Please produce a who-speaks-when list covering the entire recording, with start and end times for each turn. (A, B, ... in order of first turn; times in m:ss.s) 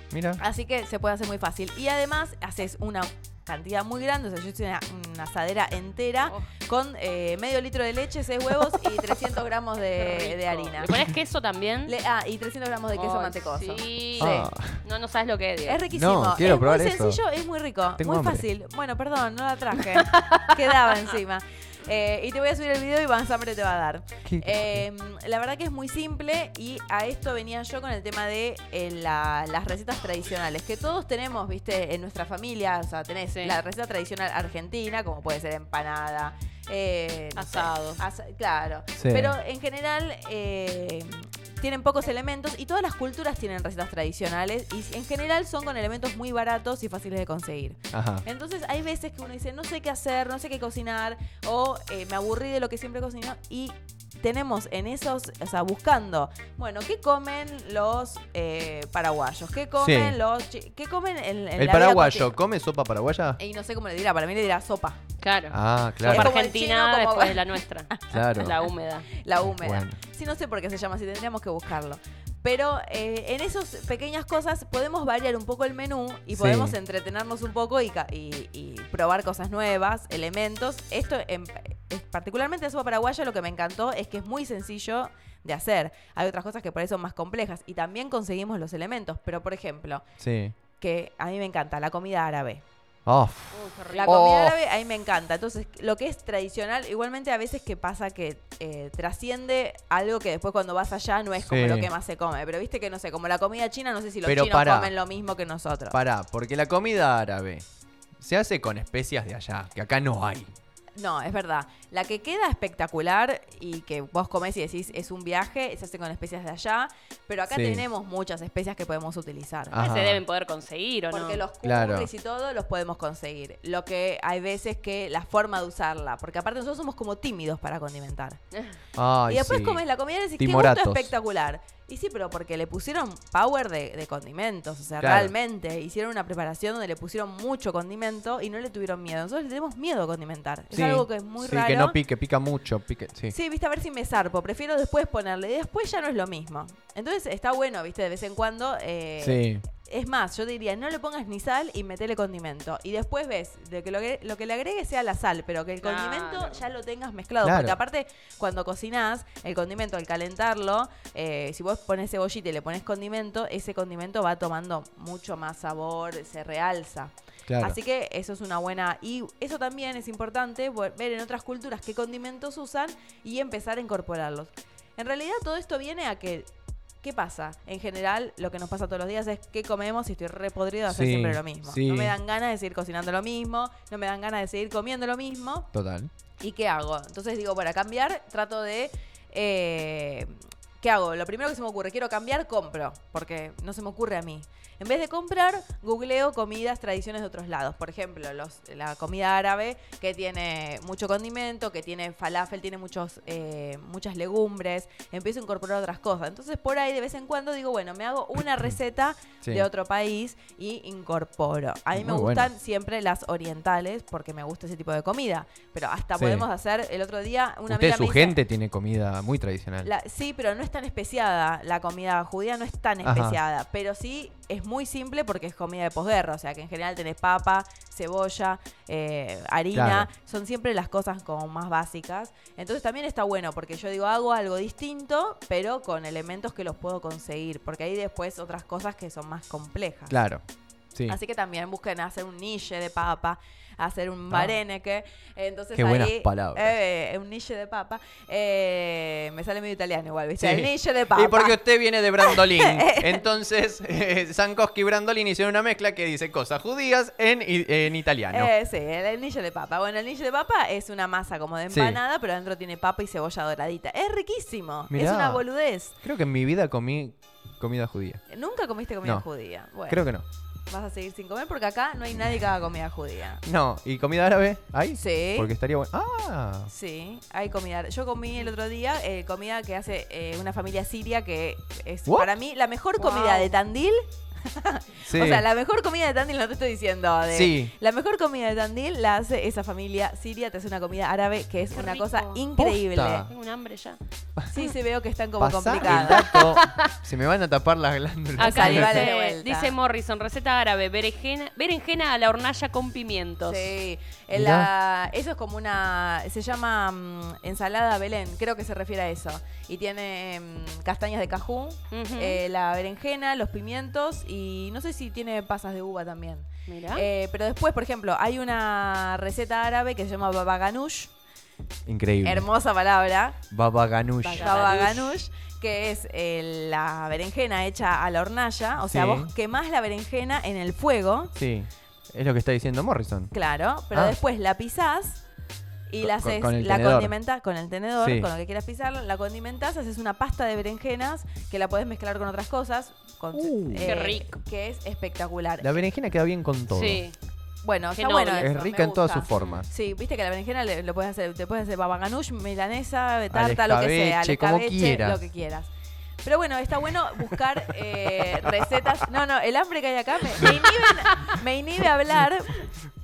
0:00.1-0:00.4 A
0:00.4-0:11.0 B
0:10.0-0:11.9 C
0:11.8-0:14.5 B
0:12.9-0:15.8 C
0:14.2-0:14.8 A
0:15.6-1:02.4 B
0:15.9-0:17.2 A
0:18.0-0:18.4 A
0:19.8-0:21.1 C
0:24.2-0:24.8 A
0:37.4-0:38.0 C
0:39.0-0:39.4 A
0:47.9-0:48.2 A
0:59.8-1:00.2 A
1:01.6-1:03.4 A
1:03.4-1:05.0 B
1:05.2-1:09.1 C
1:05.5-1:06.3 A
1:06.0-1:08.2 B
1:08.1-1:08.5 A
1:09.1-1:30.0 B
1:09.4-1:10.0 A
1:16.3-1:16.8 A
1:30.2-1:30.6 A
1:30.8-1:32.6 B
1:33.1-1:34.6 A
1:33.5-1:34.2 C
1:33.9-1:46.0 B
1:41.4-1:41.9 A
1:44.2-1:44.9 A
1:45.9-1:47.6 A
1:48.2-1:50.5 A
1:51.0-1:59.8 B
1:57.5-1:57.8 A
1:59.7-2:00.2 A
1:59.8-2:01.4 C
2:01.1-2:08.4 B
2:01.6-2:02.1 A
2:09.0-2:09.8 A
2:09.3-2:22.0 B
2:10.4-2:11.1 A
2:15.0-2:15.3 A
2:20.7-2:23.3 A
2:23.3-2:56.5 B
2:29.2-2:29.7 A
2:35.8-2:36.6 C
2:37.4-2:37.8 A
2:47.5-2:47.8 A
2:57.0-3:05.7 B
3:00.9-3:02.2 A
3:05.7-3:06.1 A
3:06.4-3:38.4 B
3:32.0-3:32.5 A
3:36.2-3:36.4 A
3:37.7-3:39.9 A
3:39.8-4:00.1 B
3:43.0-3:43.4 A
3:49.7-3:50.1 A
4:00.1-4:00.4 A
4:01.1-4:11.6 B
4:05.8-4:06.7 A
4:10.4-4:18.5 A
4:12.2-4:13.2 B
4:18.3-4:26.0 B
4:21.7-4:22.0 A
4:24.9-4:25.4 A
4:26.0-4:28.2 A
4:28.3-4:30.0 B
4:29.9-4:30.2 A
4:30.7-4:33.4 B
4:33.4-4:36.7 A
4:35.0-4:35.5 B
4:36.7-4:53.3 B
4:43.0-4:43.5 C
4:45.0-4:45.4 A
4:47.3-4:47.7 A
4:51.7-4:52.4 C
4:52.6-4:53.3 A
4:53.1-4:54.0 C
4:54.5-4:56.5 B
4:55.4-4:59.0 A
4:55.9-4:56.9 C
4:58.4-5:03.7 C
4:58.4-4:59.7 B
5:03.4-5:21.1 B
5:04.3-5:04.7 A
5:11.9-5:12.4 C
5:16.7-5:17.1 C
5:21.9-5:22.4 A
5:22.2-5:23.4 B
5:23.5-5:24.6 A
5:24.2-5:25.2 C
5:24.3-5:31.3 B
5:28.9-5:29.3 A
5:31.4-5:33.3 A
5:33.3-5:35.2 B
5:35.9-5:45.8 B
5:36.0-5:37.1 A
5:38.0-5:38.3 A
5:43.3-5:44.0 A
5:43.8-5:44.4 C
5:45.6-5:47.0 A
5:46.7-5:47.2 C
5:47.6-5:55.7 B
5:48.0-5:48.6 C
5:48.4-5:49.7 A
5:53.3-5:55.2 A
5:56.2-6:02.7 B
5:58.2-5:58.5 A
6:00.4-6:01.3 A